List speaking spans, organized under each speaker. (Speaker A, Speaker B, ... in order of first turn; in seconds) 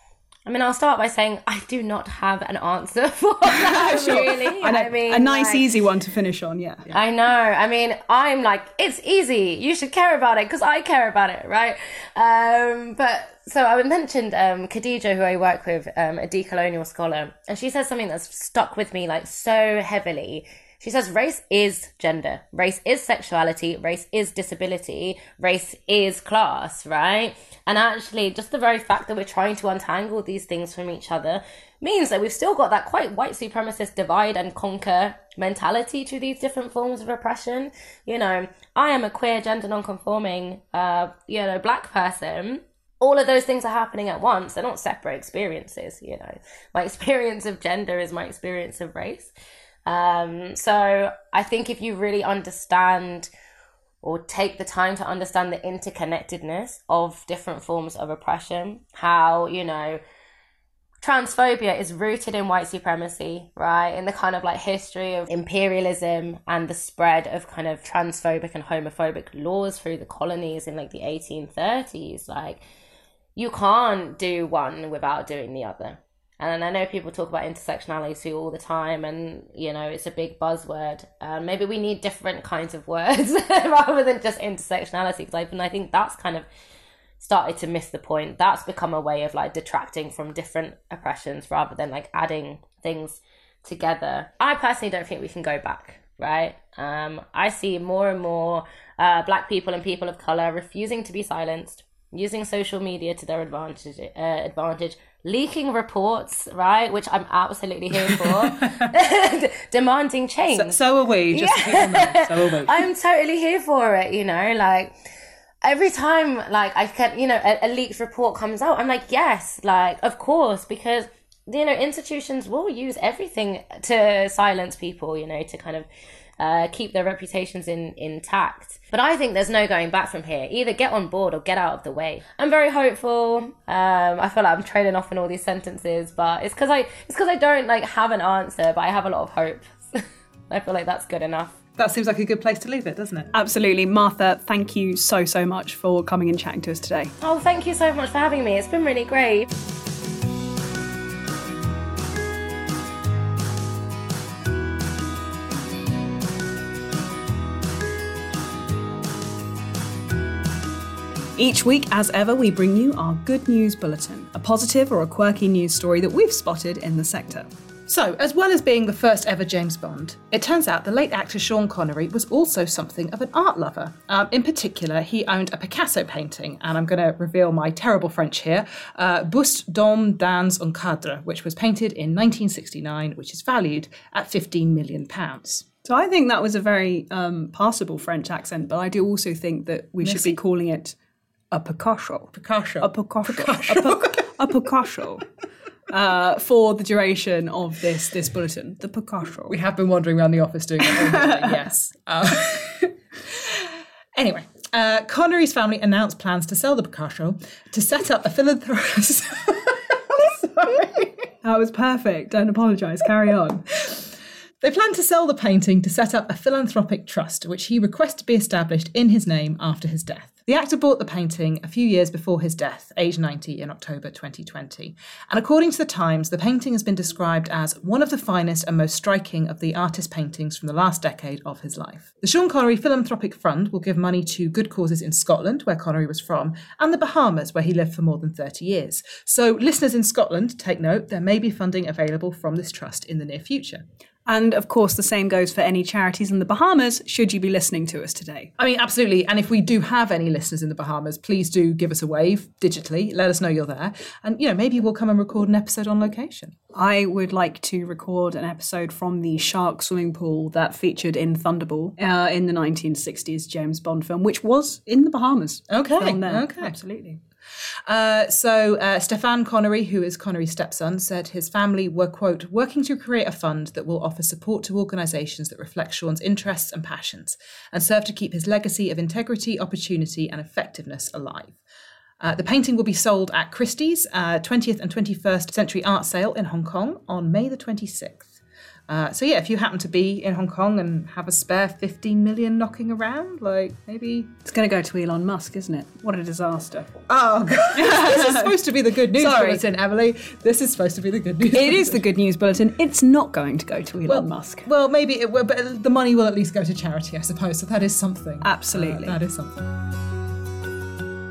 Speaker A: 0.5-5.7, 6.9-49.3, 49.9-53.3, 54.0-60.0, 61.0-72.6, 73.3-86.5, 87.2-110.8, 111.3-114.9, 115.6-125.9, 126.4-141.6, 147.2-149.5
Speaker B: 3.5-6.9, 143.3-147.1, 161.4-167.5, 185.8-190.9, 191.5-195.2, 195.9-199.5, 200.9-201.6, 211.4-213.8, 244.3-248.5, 256.7-267.2, 294.4-296.9, 297.7-298.5, 299.1-299.6, 301.5-304.6, 308.4-309.2
Speaker C: 108.0-108.8, 110.5-112.9, 141.8-143.3, 167.9-185.6, 190.0-190.4, 192.3-194.1, 199.5-211.3, 214.6-243.8, 248.6-256.5, 265.7-266.8, 267.9-281.6, 282.2-288.3, 288.9-294.3, 297.1-302.0, 304.1-309.7